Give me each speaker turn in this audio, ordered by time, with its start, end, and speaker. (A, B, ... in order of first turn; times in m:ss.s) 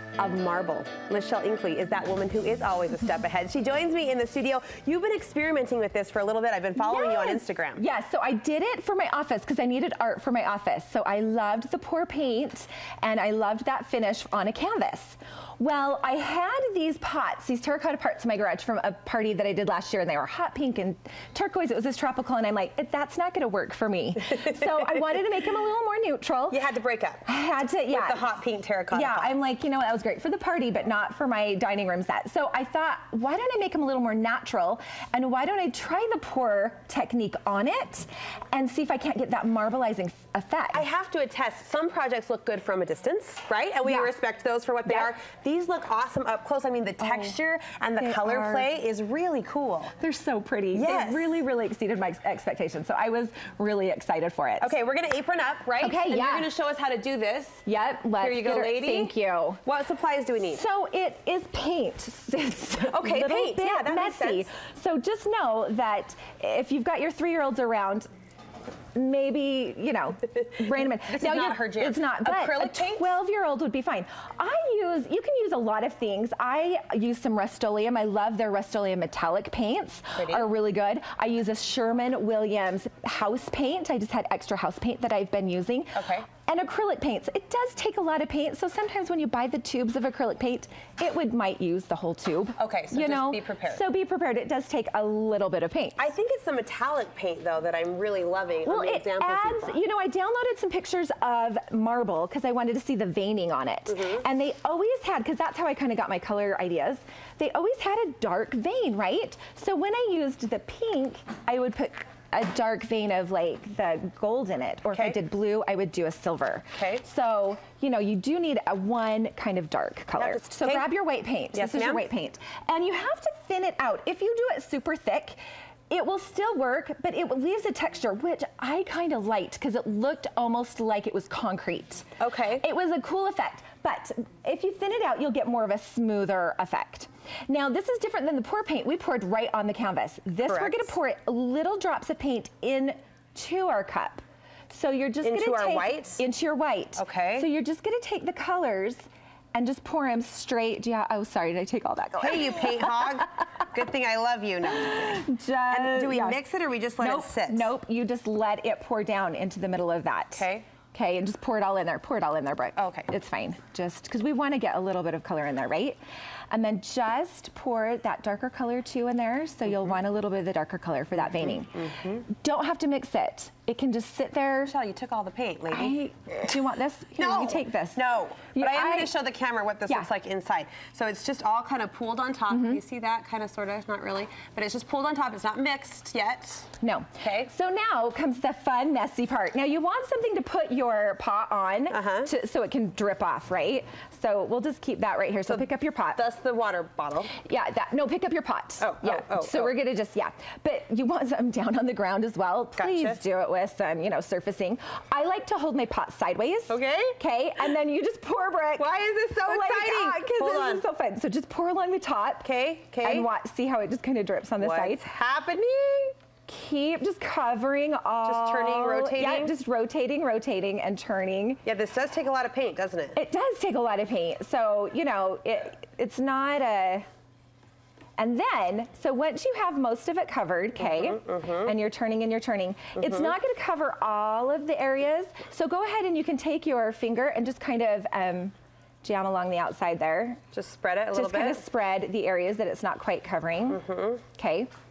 0:00.2-0:07.8 A
0:06.8-0:26.6 B
0:24.3-0:25.0 A
0:26.5-0:27.3 A
0:27.3-0:28.2 B
0:27.9-0:29.4 A
0:28.9-0:40.9 B
0:40.7-0:50.0 A
0:43.8-0:44.1 B
0:44.9-0:45.1 B
0:47.0-0:47.4 B
0:48.0-0:48.7 B
0:50.0-0:54.8 B
0:50.7-0:51.4 A
0:54.6-0:57.6 A
0:55.8-0:56.5 B
0:57.7-0:59.6 B
0:58.2-0:59.1 A
0:59.6-1:00.6 A
1:00.5-1:08.1 B
1:02.8-1:04.5 A
1:09.0-1:36.1 B
1:10.8-1:13.1 A
1:20.2-1:20.5 A
1:26.0-1:26.3 A
1:32.6-1:33.8 A
1:36.0-1:39.8 A
1:38.6-2:05.4 B
1:43.9-1:44.2 A
1:54.9-1:55.2 A
1:56.8-1:57.0 A
2:00.2-2:00.9 A
2:01.5-2:02.1 A
2:05.9-2:12.1 B
2:12.2-2:12.6 A
2:12.6-2:33.3 B
2:20.5-2:20.9 A
2:25.2-2:26.2 A
2:27.0-2:27.5 A
2:32.2-2:37.7 A
2:34.7-2:36.4 B
2:37.0-2:46.0 B
2:40.3-2:40.7 A
2:42.8-2:43.1 A
2:46.5-2:54.8 B
2:51.2-2:52.2 A
2:54.7-2:56.0 A
2:55.7-2:58.0 B
2:57.2-3:07.5 A
2:58.5-2:59.1 B
3:02.5-3:02.8 B
3:06.8-3:16.2 B
3:11.9-3:12.3 A
3:15.5-3:17.4 A
3:17.4-3:32.5 B
3:18.8-3:19.8 A
3:22.8-3:23.2 A
3:26.7-3:27.2 A
3:28.8-3:30.8 A
3:32.4-3:33.3 A
3:33.0-3:35.0 B
3:34.6-3:36.2 A
3:36.5-3:41.6 B
3:38.2-3:39.6 A
3:41.6-3:43.2 A
3:43.2-3:47.0 B
3:48.2-4:00.4 B
3:50.8-3:51.7 A
3:53.0-3:53.3 A
4:00.5-4:01.6 A
4:01.1-4:03.8 B
4:03.7-4:04.2 A
4:04.4-4:04.7 B